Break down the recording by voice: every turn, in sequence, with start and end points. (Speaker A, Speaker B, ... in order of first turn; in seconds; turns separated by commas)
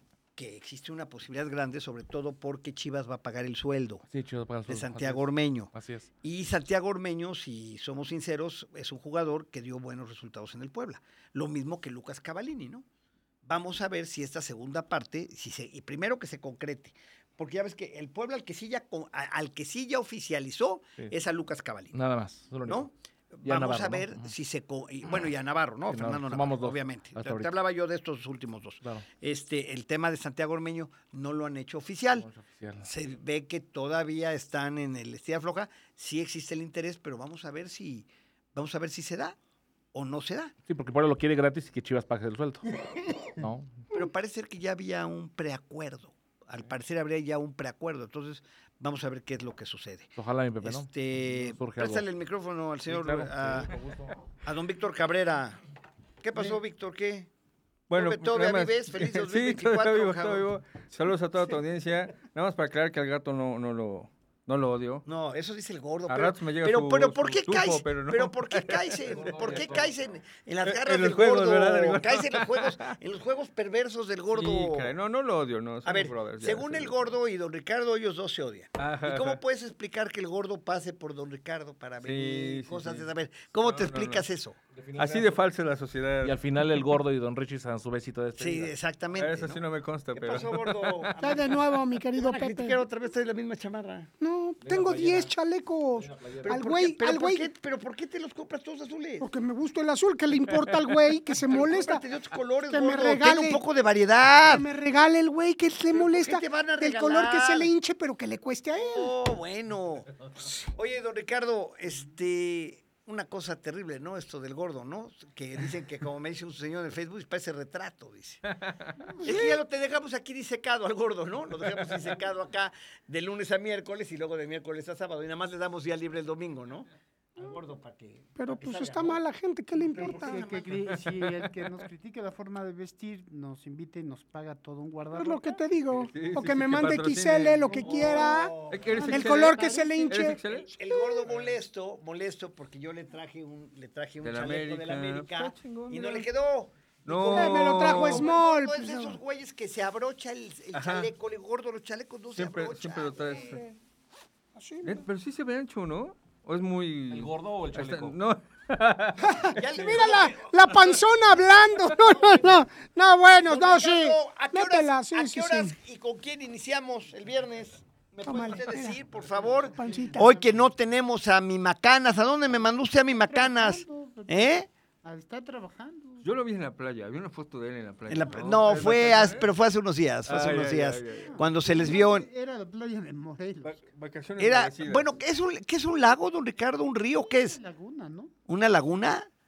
Speaker A: 0.3-4.0, Speaker B: 4.1-6.1, Speaker A: 4.7-12.8, Speaker A: 13.4-22.0, Speaker B: 21.9-22.9, Speaker A: 22.7-32.3, Speaker B: 23.4-24.3, Speaker B: 25.9-27.5, Speaker B: 32.1-32.9, Speaker A: 32.8-39.4, Speaker A: 39.9-40.5, Speaker B: 40.6-42.7, Speaker B: 43.3-43.8, Speaker A: 43.9-53.7, Speaker B: 50.2-52.0, Speaker B: 52.9-54.2, Speaker A: 54.4-55.6, Speaker A: 56.2-57.3, Speaker C: 57.9-65.0, Speaker A: 57.9-60.5, Speaker A: 65.0-74.9, Speaker C: 66.1-69.7, Speaker B: 69.1-69.9, Speaker C: 70.6-72.9, Speaker C: 74.3-77.0, Speaker A: 75.8-84.6, Speaker C: 78.8-79.4, Speaker C: 82.0-83.1, Speaker C: 83.6-84.2, Speaker B: 84.7-85.4, Speaker C: 84.9-86.6, Speaker B: 86.2-88.7, Speaker A: 88.4-89.6, Speaker C: 89.2-91.2, Speaker A: 90.1-91.5, Speaker D: 91.2-92.8, Speaker A: 92.1-94.1, Speaker D: 94.2-97.5, Speaker B: 94.6-95.3, Speaker B: 96.0-96.6, Speaker A: 96.4-99.3, Speaker D: 99.2-102.0, Speaker A: 101.5-104.7, Speaker D: 102.7-103.6, Speaker D: 104.3-109.1, Speaker A: 105.9-107.7, Speaker A: 108.8-118.4, Speaker C: 118.5-118.9, Speaker A: 119.2-129.2, Speaker D: 119.2-119.5, Speaker D: 128.3-130.4, Speaker A: 129.9-130.7, Speaker E: 130.0-135.6, Speaker D: 135.1-141.3, Speaker C: 135.9-139.6, Speaker A: 137.7-153.6, Speaker E: 139.0-139.9, Speaker C: 140.1-140.7, Speaker C: 144.2-146.2, Speaker C: 147.1-148.3, Speaker D: 147.3-149.2, Speaker C: 150.7-151.1, Speaker C: 152.3-153.6, Speaker D: 153.2-153.8, Speaker D: 154.6-155.0, Speaker C: 154.8-160.0, Speaker B: 157.1-158.2, Speaker D: 159.2-165.7, Speaker A: 159.4-160.5, Speaker A: 162.1-162.4, Speaker A: 163.4-174.7, Speaker D: 168.2-169.0, Speaker D: 169.8-170.2, Speaker E: 169.8-170.7, Speaker E: 173.3-176.2, Speaker C: 176.2-179.5, Speaker A: 178.1-182.2, Speaker C: 180.2-181.3, Speaker E: 181.2-183.8, Speaker C: 183.6-185.1, Speaker A: 184.4-187.6, Speaker E: 187.2-188.3, Speaker A: 188.5-189.3